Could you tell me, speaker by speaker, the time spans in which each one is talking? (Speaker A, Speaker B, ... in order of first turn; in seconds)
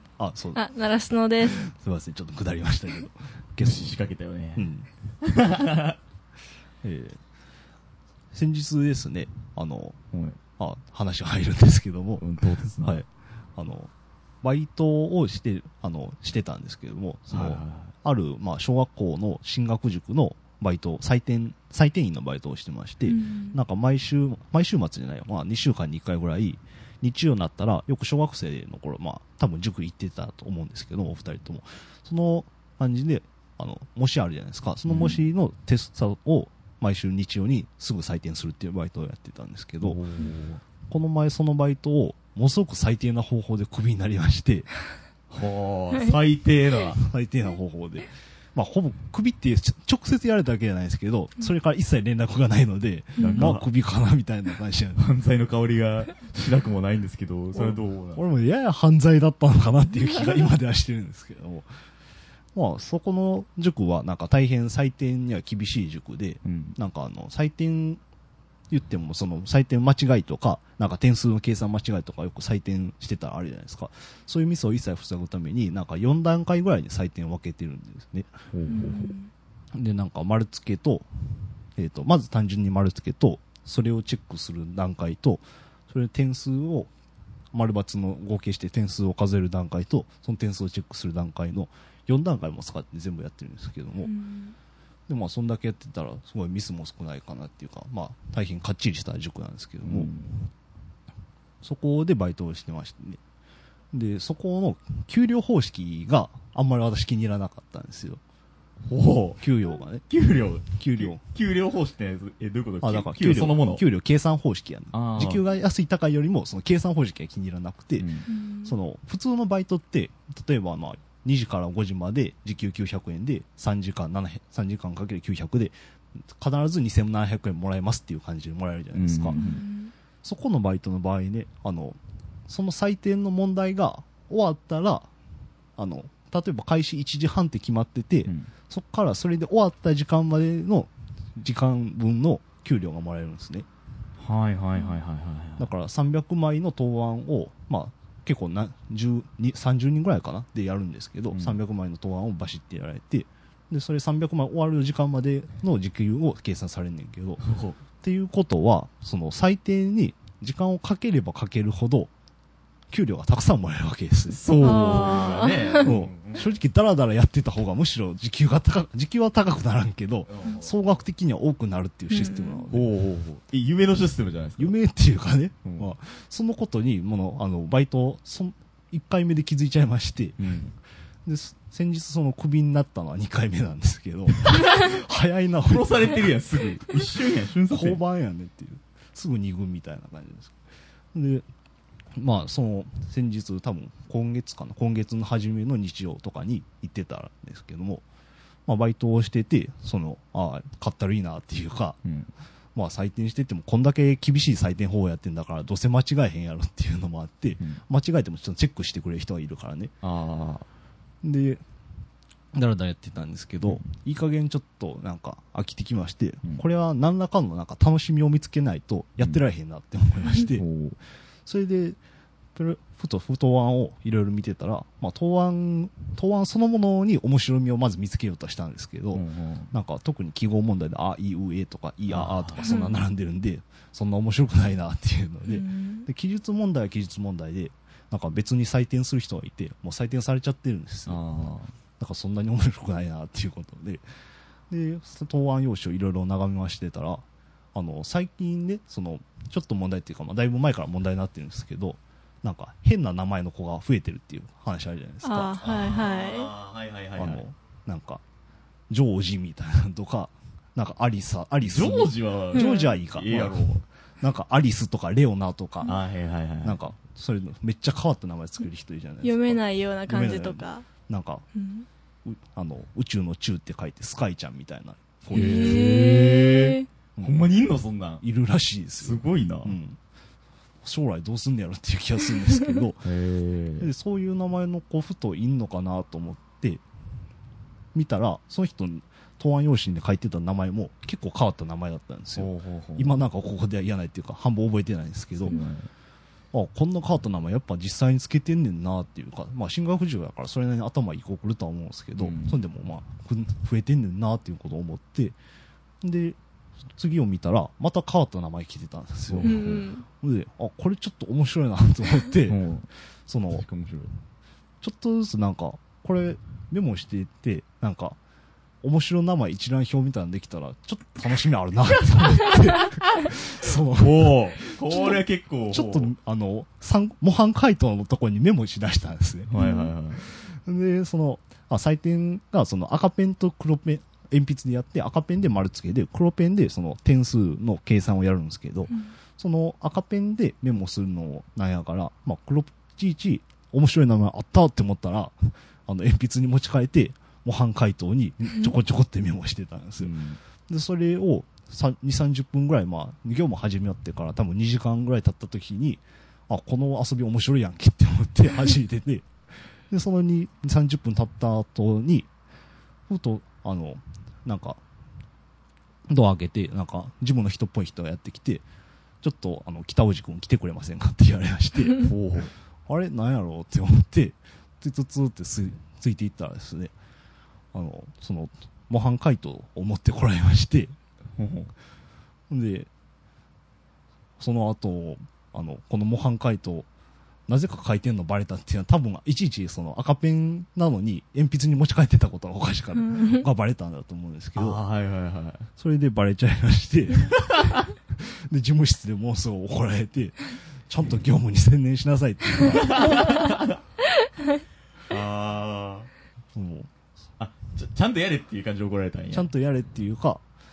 Speaker A: 0.2-0.7, 1.4-3.9, 4.6-4.9, 6.8-7.2, 8.3-10.0, 10.6-12.2, 12.8-13.9, 14.4-40.0, 40.9-44.7, 47.0-55.0, 57.5-61.7, 62.5-68.0, 68.7-78.9, 79.7-81.1, 81.7-86.9, 87.5-94.2, 95.1-100.1, 101.6-103.2, 103.9-108.2, 109.4-110.0, 110.7-111.2, 112.8-125.8, 126.3-129.4, 130.2-135.1, 135.8-143.7, 145.6-157.4, 158.0-162.1, 162.9-172.9, 174.6-180.4, 181.2-186.4, 187.7-190.6, 191.1-191.5, 192.2-198.1, 198.7-202.0, 202.8-209.9, 211.2-211.6, 212.5-220.6, 221.4-222.0, 222.6-241.2, 242.0-244.0, 244.7-255.6, 257.2-258.2, 258.9-266.0, 266.6-271.5, 272.2-275.9, 277.2-277.5, 278.2-280.0, 280.8-283.1, 283.8-286.8, 287.9-295.6, 296.5-305.4, 306.0-306.4, 306.9-312.6, 313.3-313.7, 314.8-318.2, 318.8-329.6, 330.2-350.1, 350.7-362.3, 363.1-364.8, 366.1-368.6, 369.2-372.1, 372.9-376.9, 377.7-380.9, 382.5-382.9, 384.4-386.9, 387.5-394.8, 395.8-397.6, 398.1-403.3, 406.6-406.9, 409.3-410.4
Speaker B: 0.6-1.6, 23.1-23.6, 53.2-53.5, 78.7-79.3, 94.1-94.5, 118.3-118.8, 129.3-129.9, 164.6-165.9, 172.1-172.6, 232.6-233.0, 235.5-236.1, 255.2-256.5, 262.5-263.0, 269.2-270.9, 271.6-271.9, 275.3-276.9, 309.4-310.0, 329.6-329.9, 393.2-393.4
Speaker C: 3.6-4.7, 5.2-6.0, 10.1-10.4, 12.2-13.0, 17.3-17.9, 34.9-35.2, 39.8-40.6, 45.3-47.0, 53.2-53.6, 55.0-58.2, 66.4-66.8, 78.5-79.2, 99.8-100.5, 108.9-109.4, 110.1-113.8, 114.9-115.4, 118.0-118.3, 128.9-129.7, 144.2-145.7, 151.3-151.6, 157.4-157.8, 164.3-166.6, 170.3-170.8, 172.7-174.8, 180.4-180.8, 185.7-188.0, 202.0-202.3, 210.0-210.7, 220.5-221.0, 229.1-229.7, 232.1-232.7, 241.1-241.7, 255.6-257.4, 261.6-263.9, 265.9-266.8, 275.3-278.2, 279.0-279.8, 283.0-283.9, 292.4-293.2, 295.4-295.9, 302.2-302.6, 309.3-310.0, 312.5-312.9, 313.5-314.1, 324.0-326.1, 329.5-330.2, 350.0-350.4, 372.0-372.5, 381.4-381.7, 394.6-395.7, 397.5-397.8, 402.7-403.8, 405.1-406.1, 407.4-409.5